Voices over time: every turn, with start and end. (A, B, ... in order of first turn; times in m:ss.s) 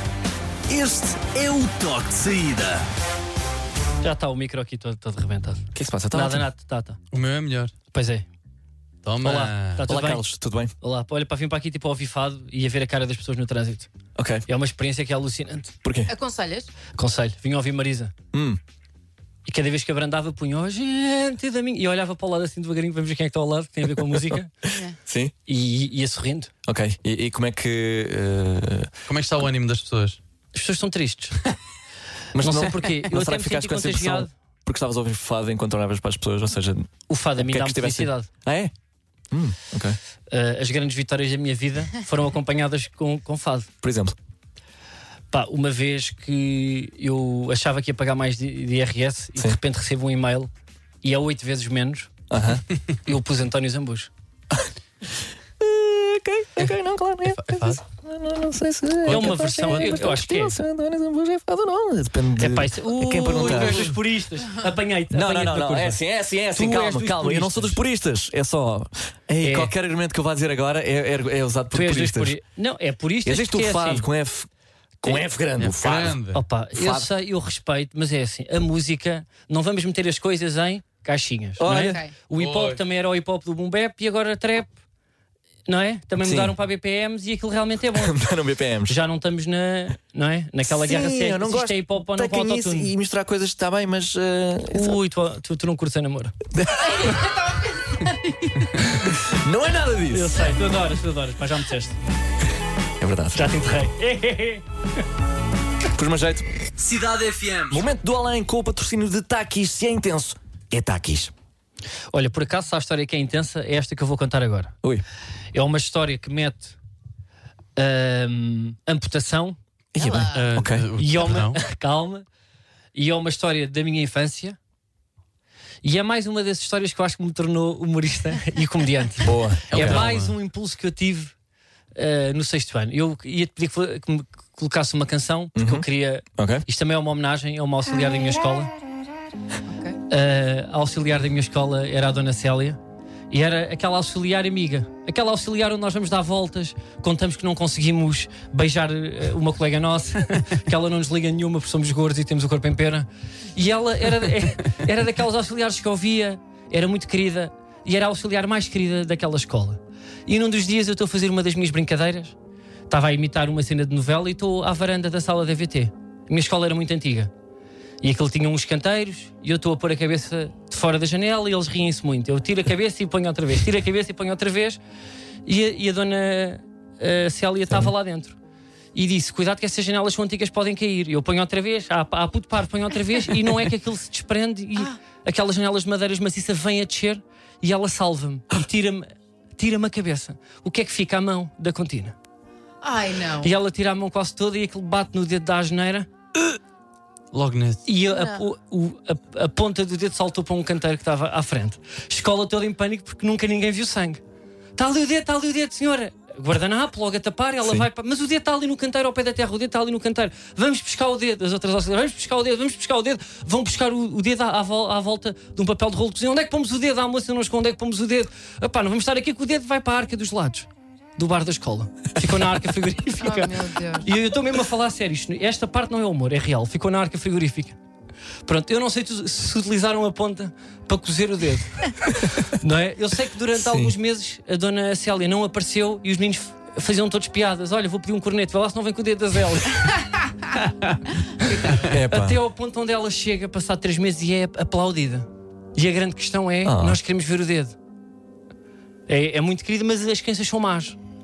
0:00.7-0:02.9 A
0:04.0-0:07.0 B
0:05.7-0:06.5 C
0:07.1-0:07.7 D
0:07.9-0:08.3 B
0:09.0-0:09.8 D
0:09.2-0:10.3 B
0:09.8-0:10.7 C
0:10.8-0:13.9 B
0:14.2-0:14.4 C
0:14.5-0:15.7 B
0:15.8-0:16.1 C
0:16.1-0:16.7 E
0:16.9-0:18.1 B
0:18.3-0:18.6 C
0:19.4-0:24.5 B
0:24.0-0:25.3 C
0:24.7-0:25.0 E
0:25.5-0:26.5 B
0:26.6-0:28.9 C
0:29.1-0:30.2 D
0:30.5-0:31.4 B
0:32.3-0:38.7 C
0:32.4-0:34.3 B
0:37.1-0:38.3 B
0:39.3-0:40.0 C
0:40.3-0:43.7 B
0:43.8-0:44.2 C
0:45.3-0:50.5 B
0:51.0-0:52.1 B
0:52.3-0:52.6 C
0:53.0-0:54.1 B
0:55.6-1:03.9 C
0:57.3-0:57.8 D
0:59.0-1:00.0 D
0:59.1-1:00.6 B
1:02.4-1:06.0 B
1:03.3-1:04.0 D
1:05.1-1:12.4 C
1:06.6-1:07.8 B
1:09.4-1:09.7 B
1:11.7-1:14.1 B
1:13.2-1:14.5 C
1:15.0-1:16.2 C
1:15.6-1:16.4 D
1:16.3-1:24.7 B
1:16.7-1:17.1 C
1:21.6-1:22.0 C
1:21.8-1:22.1 E
1:22.4-1:22.8 D
1:25.7-1:28.2 B
1:26.2-1:26.5 C
1:28.0-1:29.0 C
1:28.9-1:32.9 B
1:30.6-1:35.0 C
1:34.7-1:36.4 B
1:36.5-1:37.3 C
1:36.8-1:38.7 E
1:39.2-1:40.5 C
1:40.1-1:42.0 B
1:43.0-1:43.7 C
1:43.3-1:44.6 B
1:45.9-1:46.5 C
1:47.0-1:47.3 A
1:47.7-1:51.3 C
1:52.1-1:54.8 B
1:55.5-1:56.8 B
1:57.8-1:59.6 B
1:59.9-2:00.9 C
2:00.0-2:00.4 E
2:00.3-2:01.6 D
2:01.0-2:02.3 B
2:02.9-2:04.6 B
2:05.8-2:11.3 B
2:09.2-2:10.0 C
2:09.7-2:10.3 D
2:12.0-2:18.7 B
2:15.6-2:16.6 C
2:19.7-2:20.0 E
2:20.1-2:22.8 B
2:23.3-2:42.4 B
2:42.9-2:47.3 B
2:48.0-2:54.8 B
2:55.5-2:58.4 B
2:58.9-3:12.2 B
3:12.8-3:13.5 E
3:13.4-3:16.1 B
3:17.3-3:17.9 D
3:17.8-3:24.2 B
3:18.1-3:18.4 E
3:24.8-3:47.8 B
3:43.2-3:44.1 E
3:48.4-4:00.0 B
3:53.5-3:54.0 C
4:01.4-4:07.8 B
4:01.7-4:02.4 C
4:06.6-4:07.0 C
4:09.1-4:11.0 B